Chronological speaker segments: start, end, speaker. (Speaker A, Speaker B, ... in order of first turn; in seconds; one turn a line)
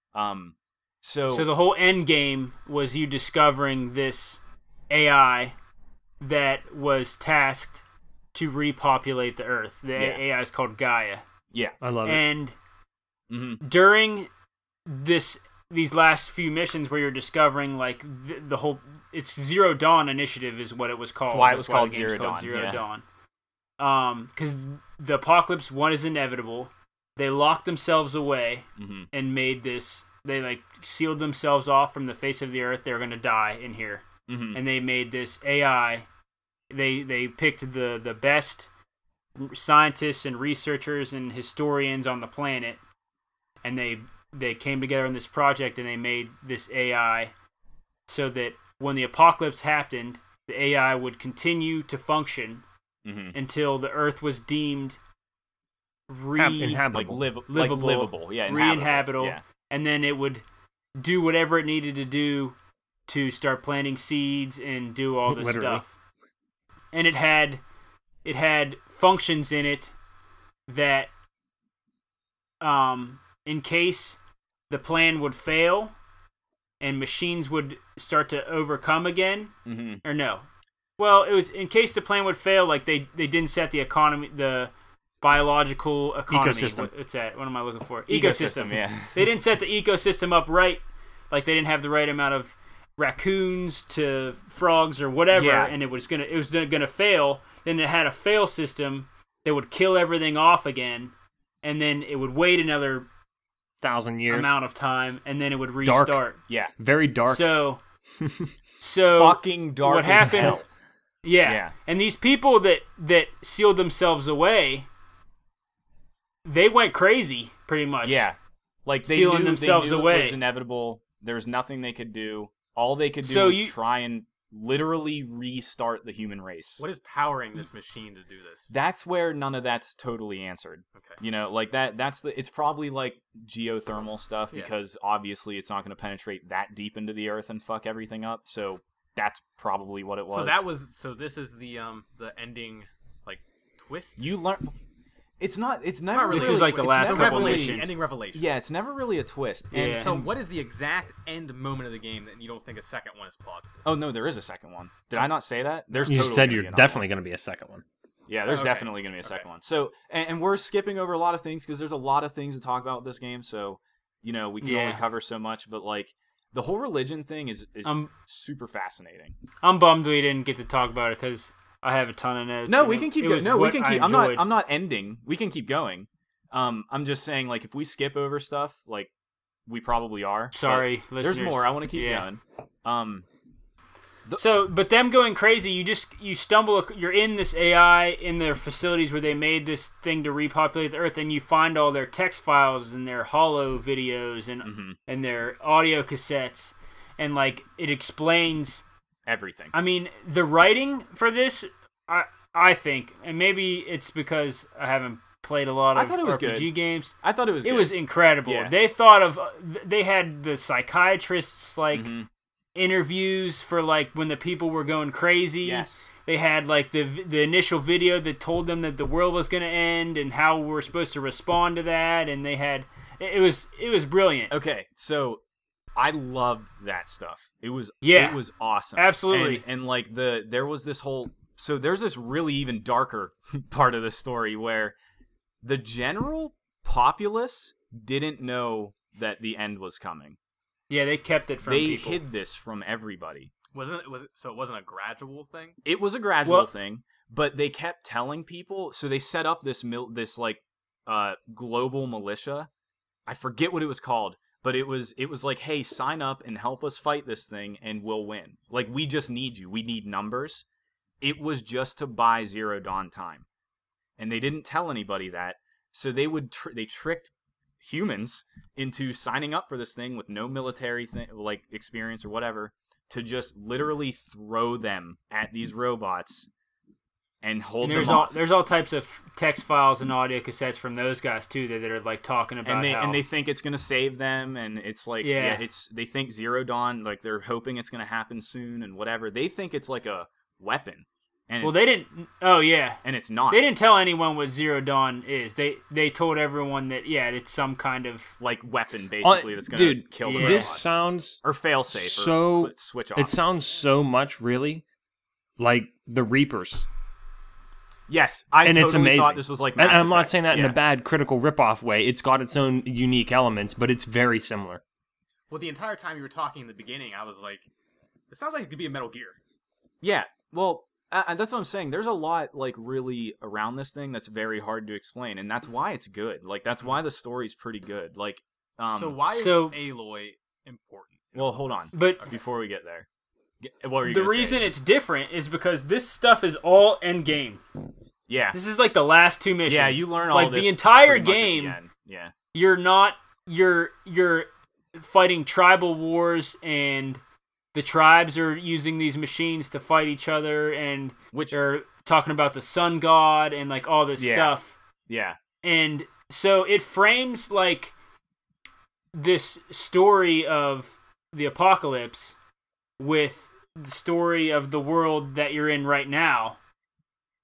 Speaker A: 0.1-1.5
Speaker B: 1.3-5.5
Speaker B: 6.2-7.8
Speaker B: 8.3-11.2
Speaker A: 9.9-10.2
Speaker C: 11.8-12.2
Speaker B: 12.0-12.5
Speaker A: 13.3-13.6
Speaker B: 13.6-14.3
Speaker B: 14.9-23.0
Speaker A: 21.3-22.8
Speaker B: 23.8-36.1
Speaker A: 28.8-29.1
Speaker A: 34.3-34.6
Speaker B: 36.7-38.7
Speaker B: 39.4-42.8
Speaker B: 43.6-47.3
Speaker B: 48.1-52.6
Speaker A: 53.0-53.4
Speaker B: 53.3-55.0
Speaker B: 56.1-56.8
Speaker C: 56.3-57.2
Speaker A: 56.9-59.4
Speaker B: 57.5-60.4
Speaker B: 61.0-62.5
Speaker B: 63.1-65.9
Speaker C: 65.2-65.8
Speaker B: 66.9-67.6
Speaker B: 68.2-69.9
Speaker B: 70.7-71.1
Speaker B: 72.6-74.2
Speaker B: 74.7-75.9
Speaker B: 76.8-80.4
Speaker A: 79.7-80.0
Speaker B: 81.0-103.1
Speaker C: 86.3-86.9
Speaker A: 88.1-89.2
Speaker A: 95.3-95.7
Speaker C: 103.8-104.5
Speaker B: 104.3-106.4
Speaker C: 105.8-106.2
Speaker C: 106.8-107.5
Speaker B: 107.3-107.8
Speaker C: 108.2-108.5
Speaker B: 108.8-110.6
Speaker A: 109.2-110.6
Speaker C: 110.2-110.6
Speaker B: 111.2-114.9
Speaker A: 111.4-111.7
Speaker B: 116.4-118.2
Speaker A: 118.0-126.8
Speaker B: 119.0-120.4
Speaker B: 123.2-123.7
Speaker D: 126.8-128.7
Speaker A: 128.7-140.6
Speaker D: 140.3-144.2
Speaker A: 144.2-144.7
Speaker A: 145.4-150.3
Speaker D: 146.1-148.4
Speaker B: 146.3-147.9
Speaker B: 149.7-150.1
Speaker D: 150.0-153.8
Speaker A: 153.8-157.0
Speaker C: 156.0-157.8
Speaker A: 158.3-169.4
Speaker D: 158.5-159.4
Speaker B: 164.6-165.0
Speaker B: 167.8-168.1
Speaker B: 169.6-174.4
Speaker A: 172.7-179.1
Speaker A: 179.7-183.2
Speaker B: 180.5-182.3
Speaker B: 184.4-198.8
Speaker A: 194.6-195.0
Speaker A: 199.3-199.7
Speaker B: 199.7-212.1
Speaker A: 205.9-208.7
Speaker A: 211.9-212.3
Speaker B: 212.7-224.5
Speaker A: 215.6-216.1
Speaker A: 224.5-225.4
Speaker A: 225.9-234.9
Speaker B: 228.0-228.4
Speaker B: 228.9-229.6
Speaker A: 235.6-240.4
Speaker B: 240.9-242.2
Speaker A: 241.6-243.5
Speaker D: 243.7-245.8
Speaker A: 245.8-252.7
Speaker B: 246.4-246.7
Speaker A: 253.3-260.6
Speaker A: 261.2-263.4
Speaker A: 264.2-276.5
Speaker A: 277.4-278.3
Speaker B: 277.8-283.2
Speaker A: 282.6-291.8
Speaker B: 285.2-285.6
Speaker B: 291.6-298.3
Speaker A: 293.0-293.6
Speaker A: 298.4-300.9
Speaker C: 299.2-304.8
Speaker B: 300.2-300.8
Speaker A: 301.4-303.4
Speaker C: 305.6-306.9
Speaker A: 308.1-310.8
Speaker C: 308.6-314.8
Speaker D: 315.5-317.7
Speaker D: 318.3-319.4
Speaker A: 320.0-329.2
Speaker D: 328.9-332.4
Speaker B: 329.3-329.8
Speaker A: 331.4-333.1
Speaker B: 331.9-332.2
Speaker A: 333.6-334.7
Speaker B: 334.1-337.6
Speaker A: 338.3-338.6
Speaker B: 338.5-341.8
Speaker A: 339.6-342.3
Speaker B: 342.5-347.2
Speaker B: 347.7-354.8
Speaker A: 354.2-354.5
Speaker A: 355.1-355.4
Speaker B: 355.6-357.9
Speaker B: 359.1-362.4
Speaker B: 363.0-366.6